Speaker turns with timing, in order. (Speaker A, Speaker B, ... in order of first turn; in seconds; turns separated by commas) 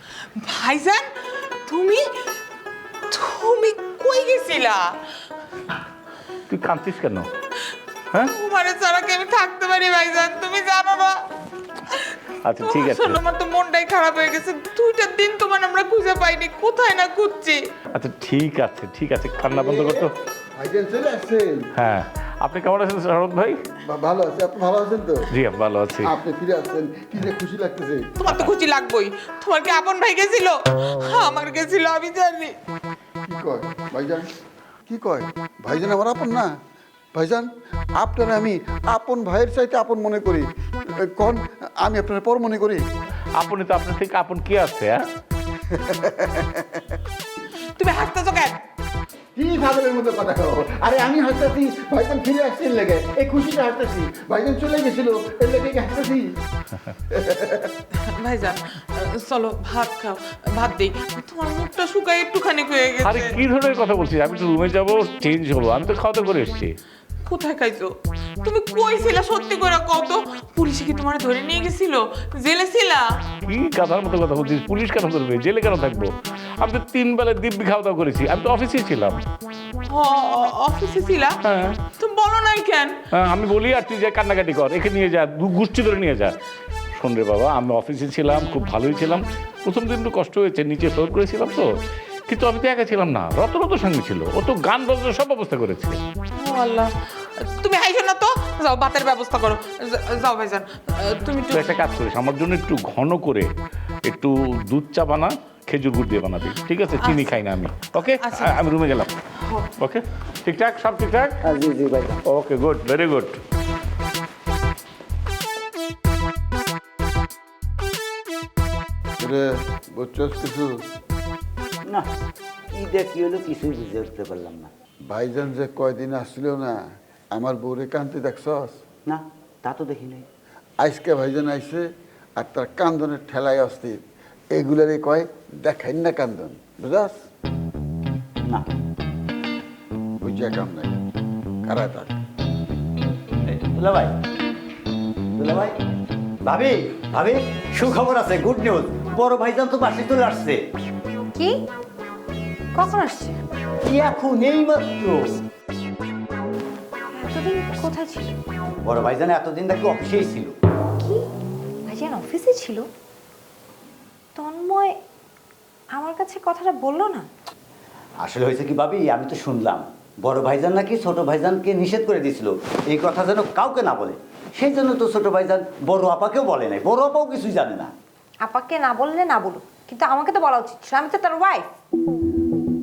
Speaker A: 0.3-2.2, Speaker A: 3.1-5.0, Speaker B: 6.5-7.3, Speaker A: 8.2-11.2, Speaker A: 11.9-17.6, Speaker B: 12.4-13.2, Speaker B: 17.9-20.1, Speaker C: 19.5-21.7, Speaker B: 21.8-23.6, Speaker C: 23.8-25.3, Speaker B: 25.3-26.1, Speaker C: 26.0-28.2, Speaker A: 28.2-32.5, Speaker C: 33.2-34.3, Speaker C: 34.9-36.5, Speaker C: 37.1-42.8, Speaker B: 43.4-45.0, Speaker C: 45.7-46.8, Speaker A: 47.8-48.6, Speaker C: 49.3-56.4, Speaker C: 57.1-57.7, Speaker A: 58.0-63.4, Speaker B: 63.0-66.8, Speaker A: 67.2-73.1, Speaker B: 73.4-79.2, Speaker A: 79.9-83.0, Speaker B: 81.4-81.8, Speaker B: 83.1-86.3, Speaker B: 87.0-91.7, Speaker B: 92.3-96.0, Speaker A: 96.3-101.7, Speaker B: 101.5-103.5, Speaker B: 104.0-109.1, Speaker A: 107.0-107.3, Speaker A: 108.2-108.6, Speaker B: 109.8-111.4, Speaker D: 111.4-112.2, Speaker B: 112.3-113.4, Speaker C: 119.2-120.8, Speaker D: 122.7-124.7, Speaker C: 125.1-126.8, Speaker C: 127.3-128.8, Speaker D: 129.1-130.3, Speaker C: 130.8-131.8, Speaker C: 132.4-134.0, Speaker C: 134.5-137.2, Speaker C: 140.2-141.0, Speaker C: 141.6-142.2, Speaker D: 143.4-144.1, Speaker D: 145.3-145.8, Speaker D: 146.4-150.7, Speaker E: 151.3-151.6, Speaker E: 152.7-153.4, Speaker D: 153.8-155.4, Speaker E: 157.1-158.3, Speaker D: 158.8-160.6, Speaker E: 161.0-161.3, Speaker E: 161.8-162.9, Speaker E: 164.3-165.0, Speaker E: 165.9-167.3, Speaker D: 168.2-177.9, Speaker E: 178.4-181.7